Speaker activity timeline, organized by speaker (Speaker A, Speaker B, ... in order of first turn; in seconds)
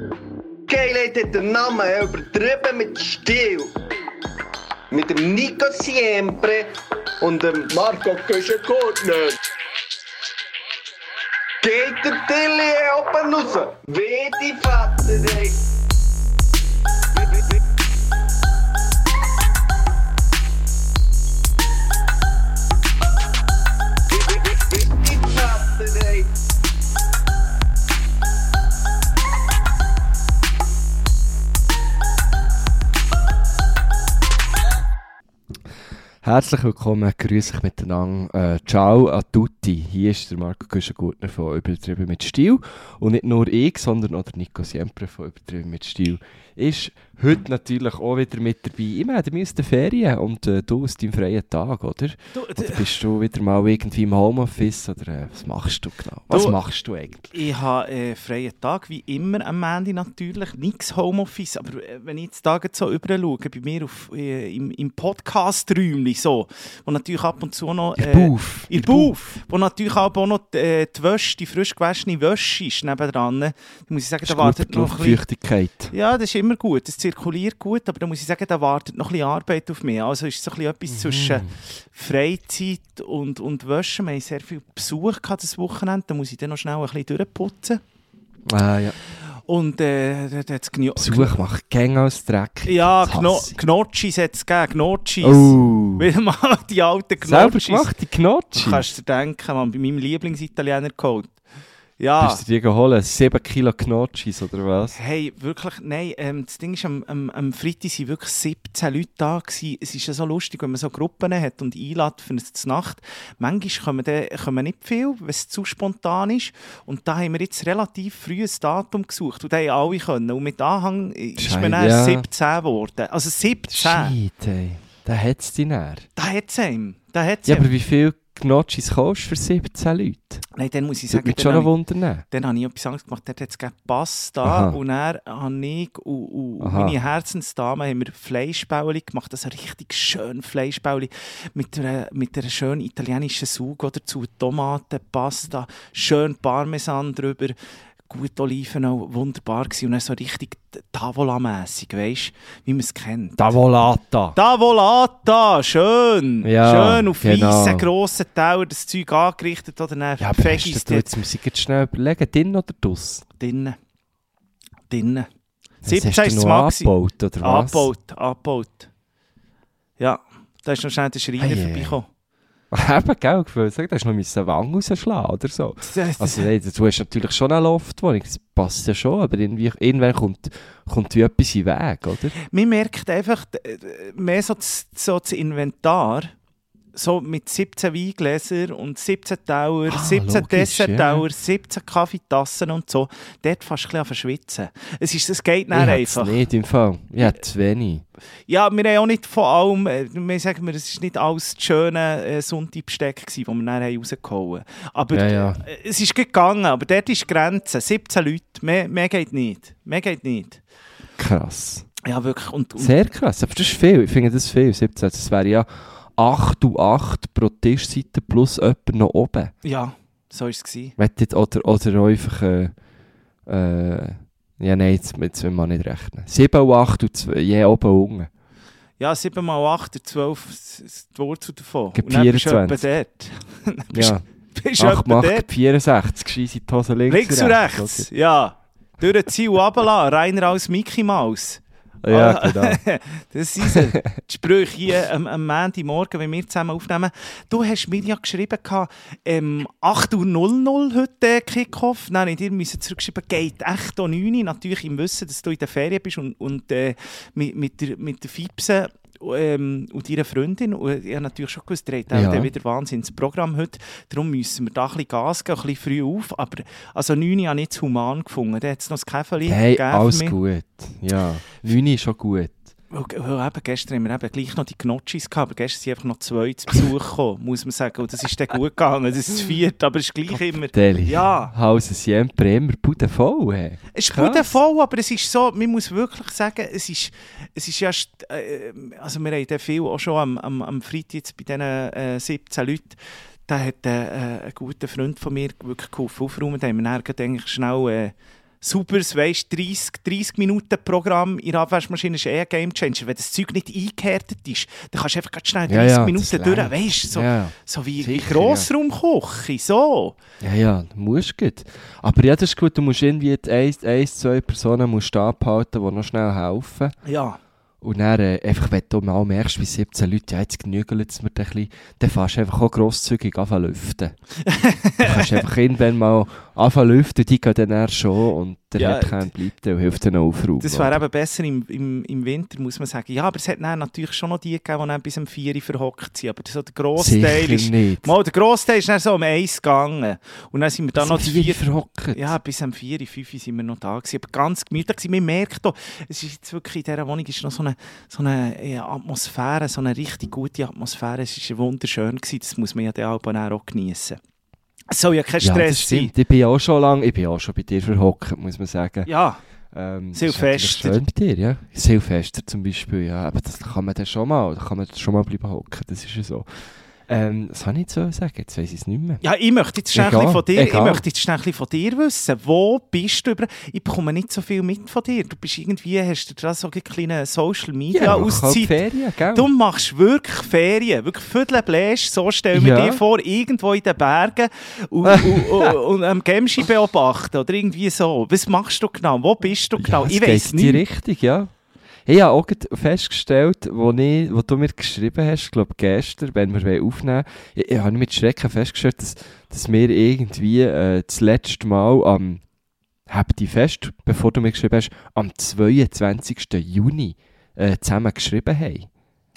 Speaker A: 0.7-3.7, 4.9-6.7, 7.2-9.4, 11.6-15.6, 24.7-26.3
Speaker B: 36.2-57.3, 68.0-69.1, 74.2-75.9, 80.9-81.5, 88.5-89.0, 91.0-93.6, 95.2-96.1, 97.2-98.8, 102.2-105.0, 121.4-122.3, 123.7-126.1, 127.5-130.4, 131.1-132.2, 134.4-134.8, 136.6-137.0, 153.4-154.4, 156.4-157.9, 160.2-163.2, 165.8-167.9, 171.4-172.0, 172.7-182.3, 189.9-191.2, 195.7-198.1, 205.1-205.6, 211.2-211.9, 212.8-219.5, 221.0-222.7, 223.5-228.3, 231.9-232.8, 233.9-234.2, 234.8-238.1, 242.0-242.8, 262.1-262.5, 269.4-272.6, 280.4-284.6, 305.7-308.7, 310.4-317.0, 317.8-324.1, 325.0-331.0, 337.0-338.1, 341.0-342.3, 355.4-359.1, 359.7-366.5, 367.1-369.2, 369.9-371.0, 377.9-379.5, 382.5-383.0, 385.1-385.7, 389.8-391.5, 392.1-402.4, 403.1-408.9
Speaker C: 52.4-52.9, 56.3-56.6, 57.3-75.2, 75.9-87.8, 89.2-91.4, 92.7-97.9, 98.5-101.3, 102.0-102.4, 104.9-124.1, 126.2-127.7, 130.6-131.7, 132.3-147.6, 148.1-153.6, 154.3-161.1, 163.4-163.8, 164.9-165.3, 165.8-168.9, 170.0-172.1, 175.8-176.5, 182.5-186.3, 186.9-196.4, 198.5-210.6, 212.0-212.9, 219.6-220.9, 229.0-235.5, 237.1-270.4, 272.9-281.5, 283.9-310.2, 317.1-317.4, 324.4-325.4, 328.8-329.3, 330.6-341.6, 342.1-354.2, 354.9-356.1, 359.1-359.4, 360.1-361.0, 369.2-378.8, 379.3-390.8